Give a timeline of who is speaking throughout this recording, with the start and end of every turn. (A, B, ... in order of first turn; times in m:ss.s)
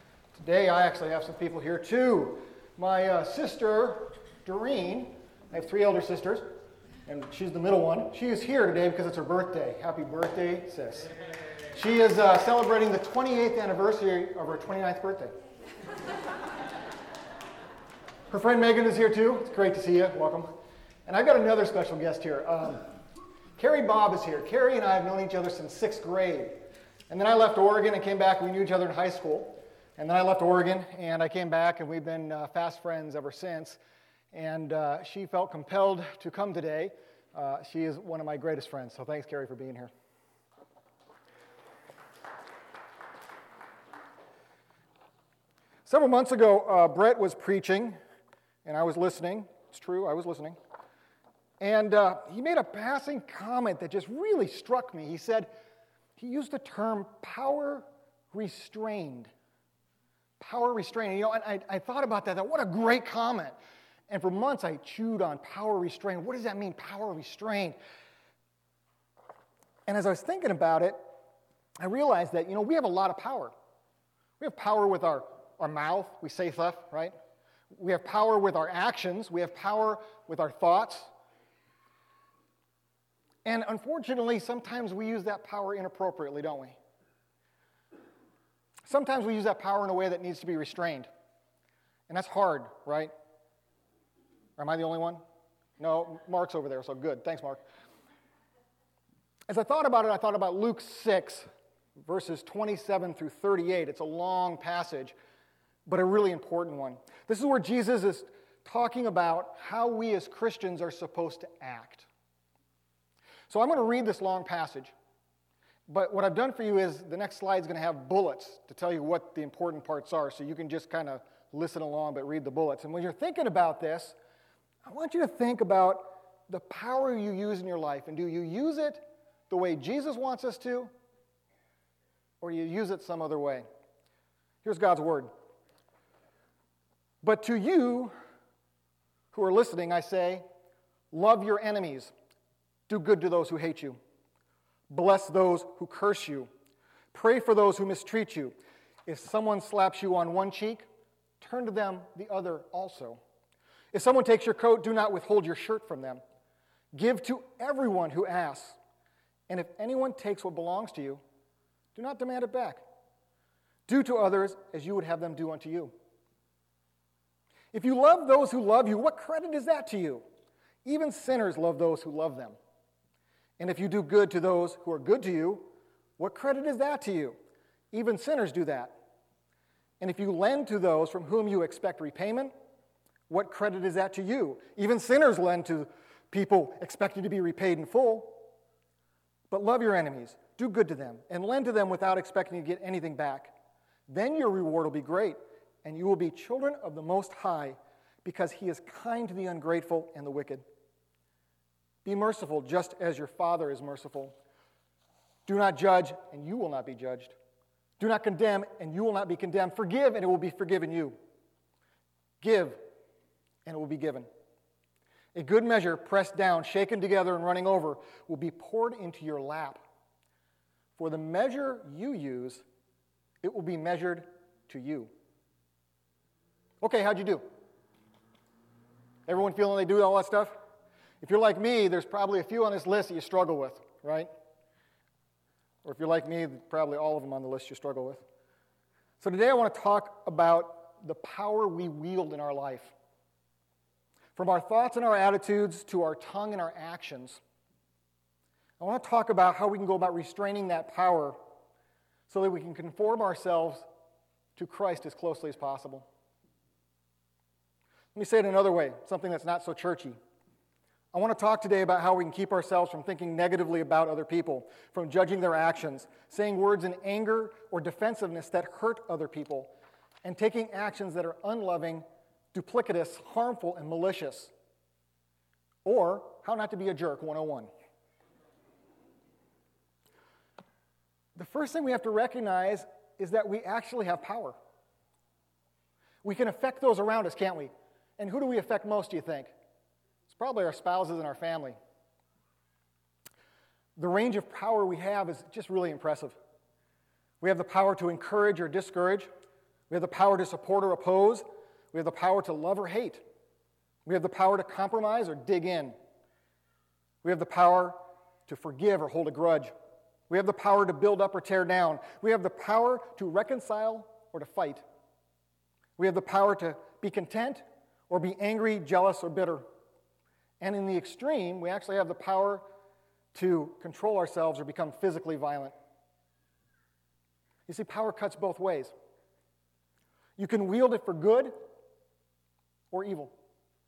0:00.4-0:06.5 A
0:07.1-0:11.1 A
0:11.7-0:15.3 A
0:18.3-0:20.5 A
0:21.1-0:22.8 A
0:23.6-0:33.8 A
0:34.3-0:39.9 A
0:45.8-0:48.0 A
0:48.6-0:50.6 A
0:51.6-0:55.5 A
0:56.2-0:59.3 A
1:00.4-1:03.6 A
1:04.1-1:07.8 A
1:09.9-1:11.0 A
1:11.8-1:13.5 A
1:14.4-1:17.1 A
1:17.7-1:21.1 A
1:23.4-1:26.8 A
1:28.8-1:31.1 A
1:32.1-1:33.1 A
1:34.6-1:35.2 A
1:35.8-1:37.6 A
1:39.5-1:41.5 A
1:42.0-1:45.2 A
1:45.9-1:52.1 A
1:53.5-1:54.9 A
1:55.9-2:04.2 A
2:04.8-2:10.9 A
2:12.4-2:13.6 A
2:14.6-2:15.3 A
2:17.2-2:18.1 A
2:19.3-2:20.4 A
2:21.1-2:22.1 A
2:22.9-2:24.0 A
2:24.9-2:26.5 A
2:27.1-2:28.6 A
2:29.1-2:30.8 A
2:31.4-2:33.2 A
2:33.9-2:36.2 A
2:36.9-2:38.8 A
2:39.5-2:41.2 A
2:42.0-2:42.8 A
2:43.9-2:45.9 A
2:47.7-2:50.2 A
2:50.8-2:52.6 A
2:53.6-2:57.4 A
2:57.9-2:59.0 A
3:00.0-3:02.5 A
3:03.3-3:08.5 A
3:09.5-3:13.5 A
3:14.1-3:20.6 A
3:22.0-3:24.4 A
3:25.5-3:27.4 A
3:28.0-3:31.2 A
3:32.4-3:32.8 A
3:33.6-3:34.3 A
3:35.4-3:39.8 A
3:41.0-3:42.6 A
3:43.4-3:45.1 A
3:46.8-3:47.4 A
3:49.3-3:50.6 A
3:51.2-3:54.3 A
3:55.8-3:58.2 A
3:59.2-4:02.9 A
4:04.4-4:07.4 A
4:08.8-4:11.4 A
4:12.3-4:13.9 A
4:14.6-4:16.1 A
4:18.2-4:20.2 A
4:21.1-4:29.7 A
4:30.2-4:34.5 A
4:35.8-4:37.7 A
4:41.4-4:44.6 A
4:46.2-4:49.5 A
4:50.3-4:51.8 A
4:54.0-4:56.4 A
4:57.4-4:59.3 A
4:59.9-5:03.2 A
5:04.1-5:06.0 A
5:07.2-5:09.7 A
5:10.3-5:14.8 A
5:16.0-5:19.6 A
5:20.6-5:22.7 A
5:23.3-5:25.7 A
5:27.7-5:28.9 A
5:30.4-5:31.6 A
5:32.9-5:33.3 A